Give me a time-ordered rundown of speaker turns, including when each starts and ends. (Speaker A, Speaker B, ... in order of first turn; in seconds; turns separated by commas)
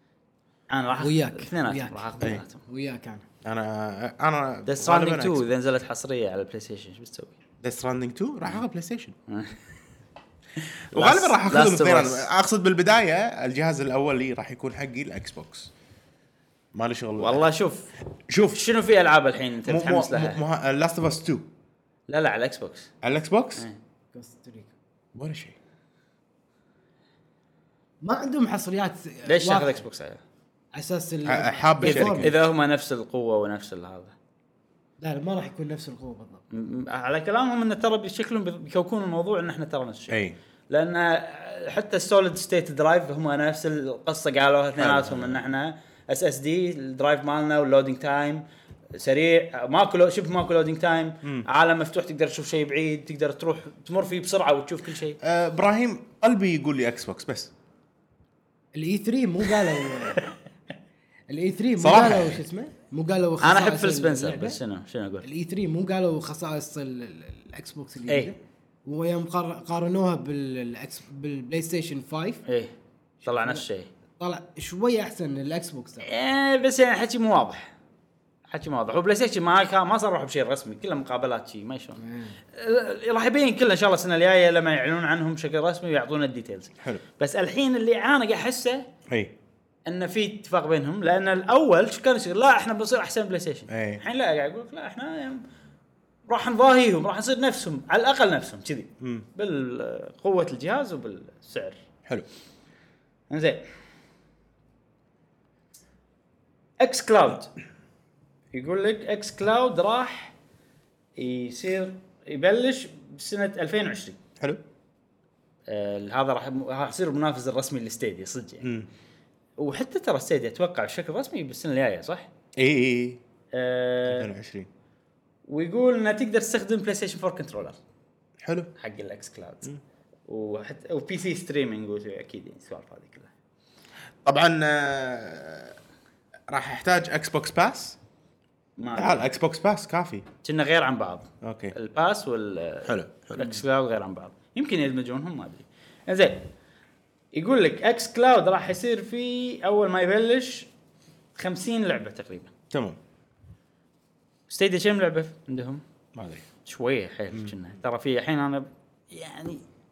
Speaker A: 0.7-2.6, Speaker B: 1.0-3.2, Speaker C: 3.4-5.5, Speaker A: 4.7-7.3, Speaker C: 7.6-9.1, Speaker A: 9.3-9.6, Speaker A: 10.9-12.3, Speaker C: 10.9-15.7, Speaker C: 16.7-17.4, Speaker A: 17.2-17.9, Speaker C: 18.3-18.7, Speaker A: 18.5-20.4, Speaker C: 19.6-21.5, Speaker A: 22.1-22.9, Speaker C: 23.0-23.6, Speaker B: 24.1-24.7, Speaker C: 25.1-25.6, Speaker B: 28.0-29.8, Speaker A: 29.2-30.2, Speaker B: 30.7-32.4, Speaker C: 31.2-32.3, Speaker A: 31.8-34.1, Speaker B: 35.0-36.4, Speaker A: 36.5-40.2, Speaker C: 40.1-40.4, Speaker A: 40.7-48.4, Speaker C: 44.8-45.4, Speaker A: 49.0-55.2, Speaker C: 55.2-57.5, Speaker B: 58.7-60.3, Speaker B: 61.3-64.6, Speaker C: 61.8-62.4, Speaker A: 63.4-65.2, Speaker B: 65.2-72.4, Speaker A: 68.1-68.3, Speaker A: 72.5-72.7, Speaker B: 73.2-73.6, Speaker A: 73.2-73.9, Speaker B: 74.2-76.1, Speaker A: 76.0-77.7, Speaker A: 78.5-82.0, Speaker B: 82.0-82.4, Speaker A: 82.5-88.9, Speaker C: 89.1-89.3, Speaker A: 89.8-95.4, Speaker C: 93.7-94.0, Speaker A: 96.3-101.8, Speaker C: 99.0-99.2, Speaker A: 103.3-103.6, Speaker A: 106.8-107.5, Speaker A: 108.5-110.3, Speaker A: 111.2-114.2, Speaker A: 115.7-118.7, Speaker C: 118.6-118.9, Speaker A: 119.6-122.3, Speaker C: 122.5-123.2, Speaker A: 123.5-124.3, Speaker C: 124.1-124.7, Speaker A: 125.5-127.8, Speaker C: 128.4-128.7, Speaker A: 128.8-129.7, Speaker A: 130.3-133.3, Speaker C: 134.2-135.8, Speaker C: 136.5-138.0, Speaker A: 138.8-139.3, Speaker C: 138.9-140.2, Speaker A: 140.4-146.5, Speaker C: 141.4-141.7, Speaker C: 142.8-143.6, Speaker A: 147.3-150.7, Speaker A: 151.3-152.5, Speaker C: 152.7-153.0, Speaker A: 154.5-155.8, Speaker C: 156.1-156.4, Speaker A: 156.6-159.6